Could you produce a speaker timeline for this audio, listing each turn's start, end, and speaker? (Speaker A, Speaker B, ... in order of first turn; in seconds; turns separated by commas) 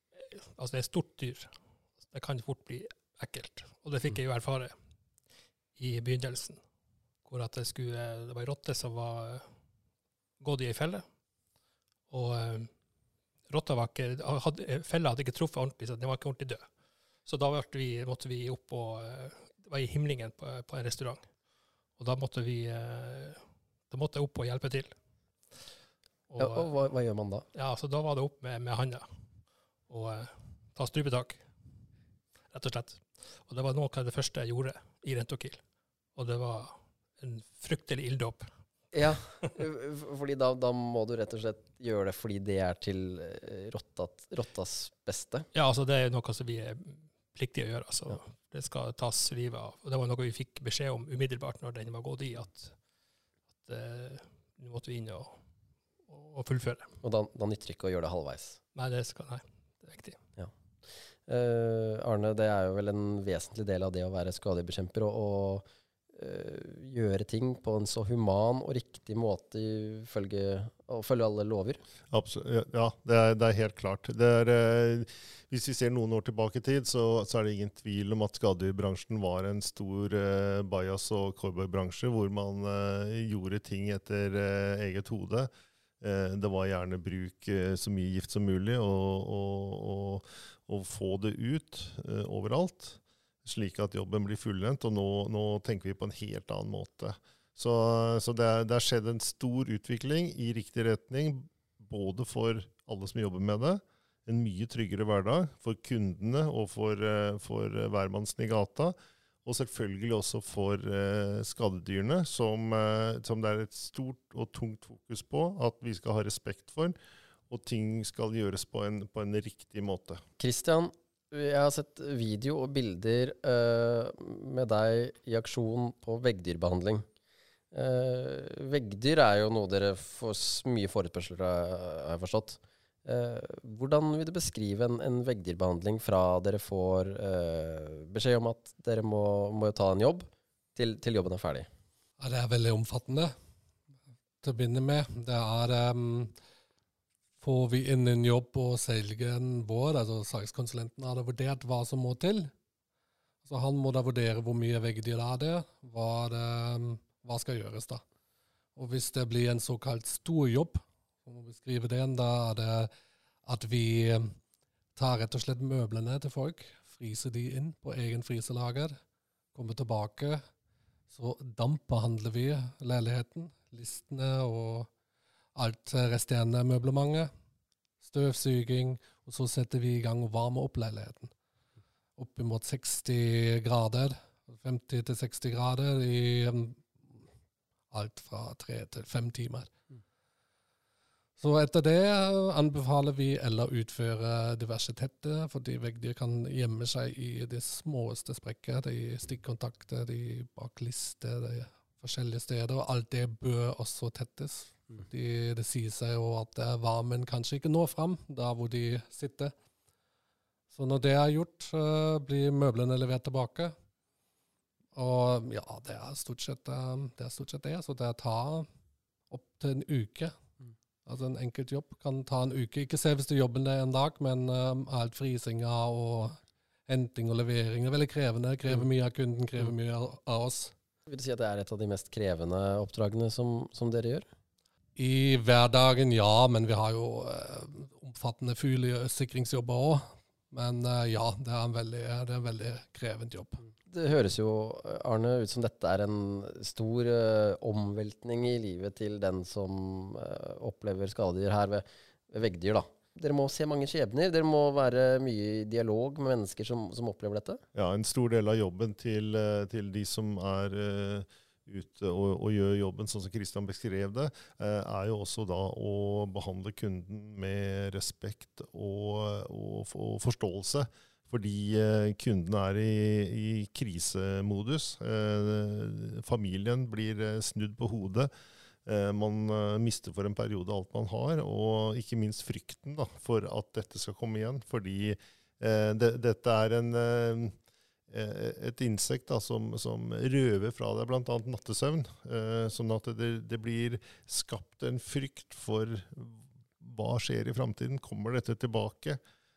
Speaker A: 0.1-1.5, Speaker A: 2.1-4.7, Speaker A: 5.8-6.6, Speaker A: 7.2-9.5, Speaker A: 10.4-11.1, Speaker A: 12.1-12.7, Speaker A: 13.5-16.7, Speaker A: 17.3-21.2, Speaker A: 22.0-24.9, Speaker A: 26.3-26.7, Speaker B: 26.4-27.4, Speaker A: 27.5-29.1, Speaker A: 29.9-31.4, Speaker A: 32.5-35.6, Speaker A: 36.1-38.5, Speaker B: 38.9-45.5, Speaker A: 45.5-52.8, Speaker A: 53.6-55.4, Speaker A: 56.1-56.9, Speaker B: 57.0-58.6, Speaker A: 58.8-60.2, Speaker B: 61.3-71.8, Speaker C: 72.1-85.5, Speaker C: 86.0-117.0, Speaker C: 117.5-120.2, Speaker B: 120.4-127.0, Speaker B: 127.7-141.7, Speaker D: 142.2-143.3, Speaker D: 144.4-146.3, Speaker D: 147.4-152.5, Speaker D: 153.4-158.0, Speaker D: 158.8-162.9, Speaker D: 163.4-164.4, Speaker D: 164.9-169.0, Speaker D: 169.5-170.4, Speaker D: 171.1-174.9, Speaker D: 175.6-177.3, Speaker D: 178.0-181.3, Speaker D: 182.2-186.9, Speaker D: 187.9-189.7, Speaker D: 191.4-209.5, Speaker D: 210.7-213.8, Speaker D: 214.9-218.7, Speaker D: 219.3-220.4, Speaker D: 221.1-230.7, Speaker B: 231.1-234.2, Speaker D: 235.0-243.6, Speaker B: 243.9-257.6, Speaker C: 257.8-278.3, Speaker C: 278.9-287.6, Speaker C: 288.1-299.2